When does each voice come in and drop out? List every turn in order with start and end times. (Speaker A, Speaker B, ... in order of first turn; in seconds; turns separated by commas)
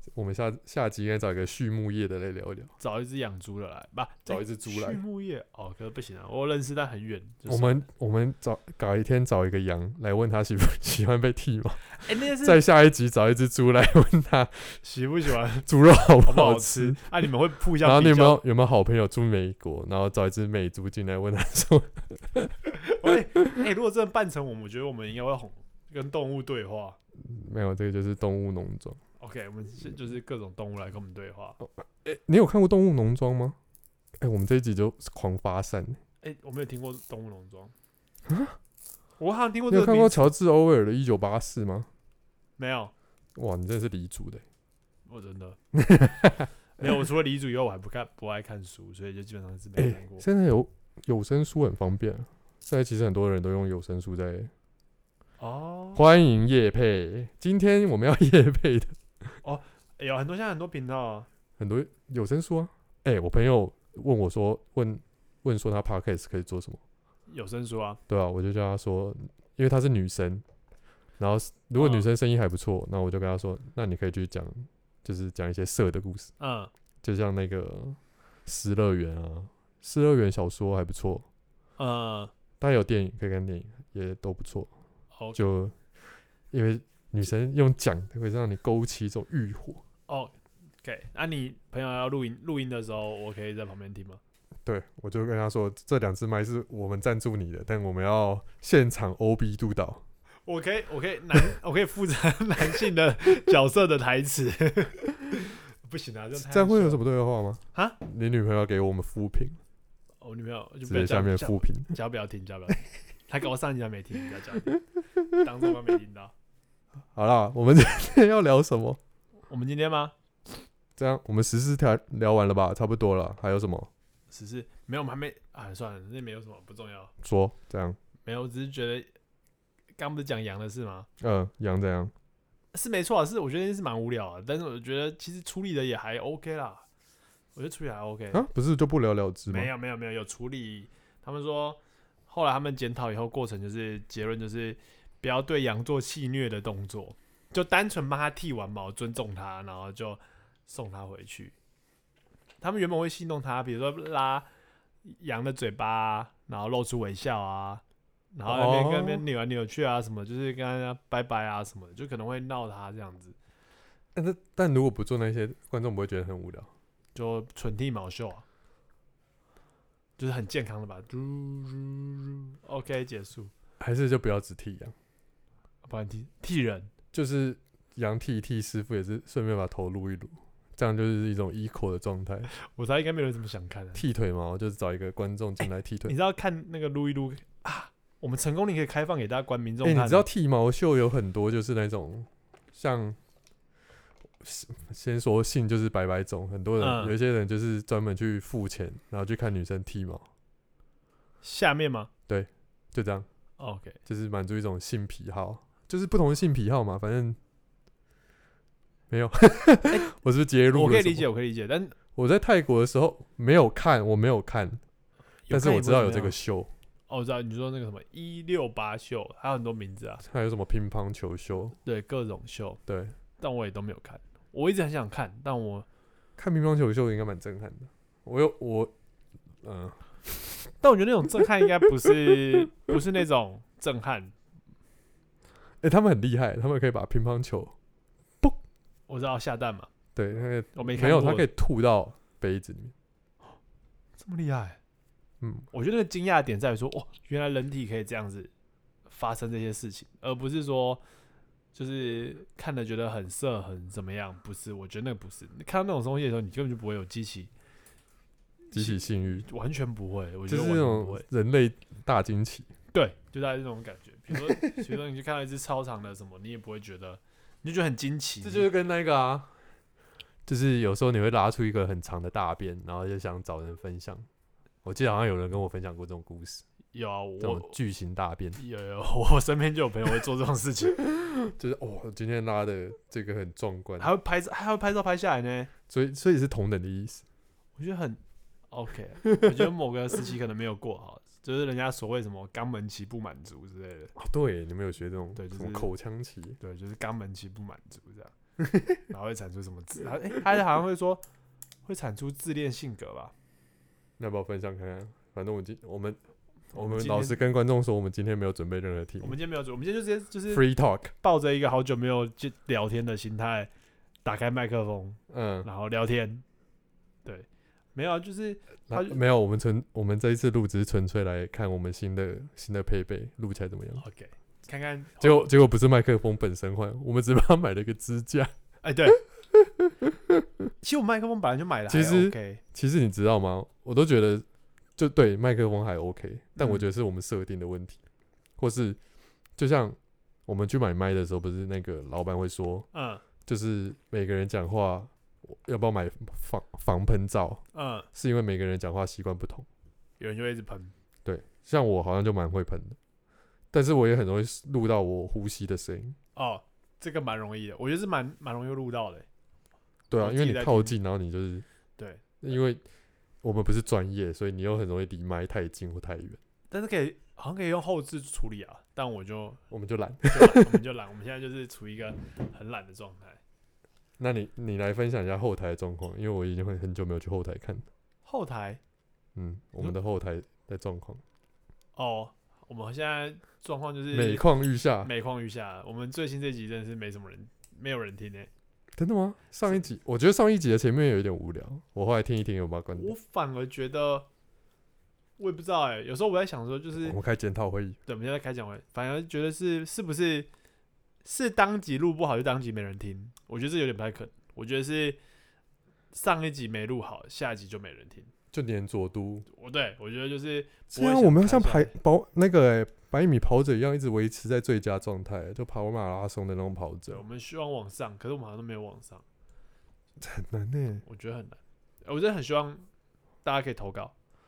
Speaker A: 0.1-2.7, Speaker B: 2.8-7.8, Speaker A: 4.3-5.0, Speaker A: 7.5-14.8, Speaker B: 12.0-12.6, Speaker B: 14.8-15.7, Speaker A: 15.6-23.6, Speaker B: 16.2-18.4, Speaker B: 22.9-27.0, Speaker A: 27.2-29.0, Speaker B: 29.2-31.6, Speaker A: 31.6-33.6, Speaker A: 34.2-36.0, Speaker B: 36.2-37.7, Speaker A: 38.3-38.6, Speaker B: 39.2-40.3, Speaker A: 39.7-41.9, Speaker B: 42.6-42.9, Speaker A: 43.4-44.4, Speaker B: 45.0-45.6, Speaker A: 45.7-47.0, Speaker B: 46.8-50.2, Speaker A: 49.8-54.5, Speaker B: 55.4-56.0, Speaker A: 55.9-59.4, Speaker B: 59.4-61.3, Speaker A: 61.6-66.8, Speaker B: 67.3-68.0, Speaker A: 68.1-70.4, Speaker A: 71.2-76.3, Speaker B: 71.8-72.1, Speaker B: 76.4-76.7, Speaker A: 77.0-81.2, Speaker B: 81.8-82.3, Speaker A: 82.6-84.7, Speaker A: 85.3-85.8, Speaker A: 86.5-89.8, Speaker B: 90.1-94.2, Speaker A: 94.6-100.0, Speaker B: 100.4-107.0, Speaker A: 106.3-109.6, Speaker B: 110.2-116.3, Speaker A: 110.8-111.9, Speaker A: 117.1-119.0, Speaker B: 119.5-120.1, Speaker A: 121.0-123.9, Speaker B: 124.3-127.1, Speaker A: 127.2-128.0, Speaker B: 128.2-129.1, Speaker B: 129.9-131.1, Speaker A: 131.2-132.1, Speaker B: 132.7-136.8, Speaker B: 137.5-138.4, Speaker A: 138.3-139.7, Speaker B: 139.5-151.5, Speaker B: 152.6-154.5, Speaker B: 155.0-157.8, Speaker B: 158.3-163.3, Speaker A: 158.4-159.2, Speaker A: 164.1-166.7, Speaker B: 167.1-168.4, Speaker B: 170.2-173.5, Speaker A: 173.8-174.9, Speaker B: 175.8-176.9, Speaker A: 177.1-182.5, Speaker B: 182.5-184.0, Speaker A: 183.9-186.2, Speaker B: 185.6-190.3, Speaker A: 189.8-193.2, Speaker A: 194.4-200.2, Speaker B: 196.8-197.2, Speaker B: 201.4-202.1, Speaker A: 202.3-203.2, Speaker B: 203.6-204.0, Speaker A: 204.1-207.4, Speaker A: 209.1-211.3, Speaker B: 210.7-211.9, Speaker A: 212.1-214.8, Speaker B: 215.5-216.3, Speaker A: 215.5-216.7, Speaker B: 217.1-220.2, Speaker A: 220.2-221.8, Speaker B: 221.8-222.8, Speaker A: 222.9-223.2, Speaker B: 223.4-225.8, Speaker A: 226.4-228.9, Speaker A: 229.6-230.7, Speaker B: 230.8-234.3, Speaker A: 232.0-232.4, Speaker A: 235.8-237.7, Speaker B: 239.1-239.9, Speaker A: 240.2-242.9, Speaker B: 240.7-241.5, Speaker B: 244.2-244.8, Speaker A: 245.4-245.7, Speaker B: 245.7-248.5, Speaker B: 249.1-251.0, Speaker B: 251.7-257.5, Speaker A: 258.7-259.5, Speaker B: 258.7-261.2, Speaker A: 260.5-262.7, Speaker B: 262.9-268.7, Speaker A: 268.4-269.5, Speaker A: 270.4-274.3, Speaker A: 274.8-276.6, Speaker B: 276.9-277.7, Speaker A: 277.4-278.6, Speaker B: 278.6-281.0, Speaker A: 281.1-284.1, Speaker B: 284.0-285.7, Speaker A: 285.9-287.2, Speaker B: 287.8-294.1, Speaker A: 294.1-296.6, Speaker B: 295.4-295.9, Speaker B: 296.6-298.3, Speaker B: 299.1-301.2, Speaker B: 301.8-303.3, Speaker A: 304.2-306.2, Speaker A: 306.7-309.4, Speaker B: 306.7-307.4, Speaker B: 309.2-310.6, Speaker A: 310.5-311.1, Speaker B: 311.2-313.7, Speaker B: 314.2-316.4, Speaker A: 315.3-315.7, Speaker B: 317.2-319.2, Speaker A: 318.9-324.0, Speaker B: 324.0-325.5, Speaker A: 325.2-328.5, Speaker B: 328.8-329.2, Speaker A: 329.1-330.7, Speaker B: 330.8-332.6, Speaker A: 331.9-334.4, Speaker A: 335.0-338.0, Speaker B: 336.6-336.9, Speaker A: 338.6-339.0, Speaker A: 339.6-342.9, Speaker B: 342.9-343.2, Speaker A: 343.4-349.6, Speaker B: 347.7-348.1, Speaker B: 350.2-350.9, Speaker A: 351.2-353.0, Speaker A: 353.7-356.2, Speaker B: 356.3-359.2, Speaker A: 360.1-361.6, Speaker B: 360.2-360.9, Speaker B: 362.0-362.2, Speaker A: 362.4-362.8, Speaker A: 363.4-366.4, Speaker B: 366.7-369.6, Speaker A: 369.7-370.8, Speaker B: 370.3-373.4, Speaker A: 374.2-377.9, Speaker B: 378.2-378.8, Speaker A: 379.4-381.2, Speaker B: 381.9-384.4, Speaker A: 384.1-385.1, Speaker B: 385.0-388.5, Speaker A: 389.0-393.1, Speaker B: 392.9-394.3, Speaker B: 395.4-397.2, Speaker A: 397.0-398.0, Speaker B: 398.1-400.5, Speaker B: 401.2-405.2, Speaker B: 406.1-408.3, Speaker A: 408.5-409.4, Speaker B: 409.5-411.9, Speaker A: 410.9-417.2, Speaker B: 417.1-419.2, Speaker A: 420.2-421.0, Speaker B: 421.0-422.9, Speaker B: 423.4-424.1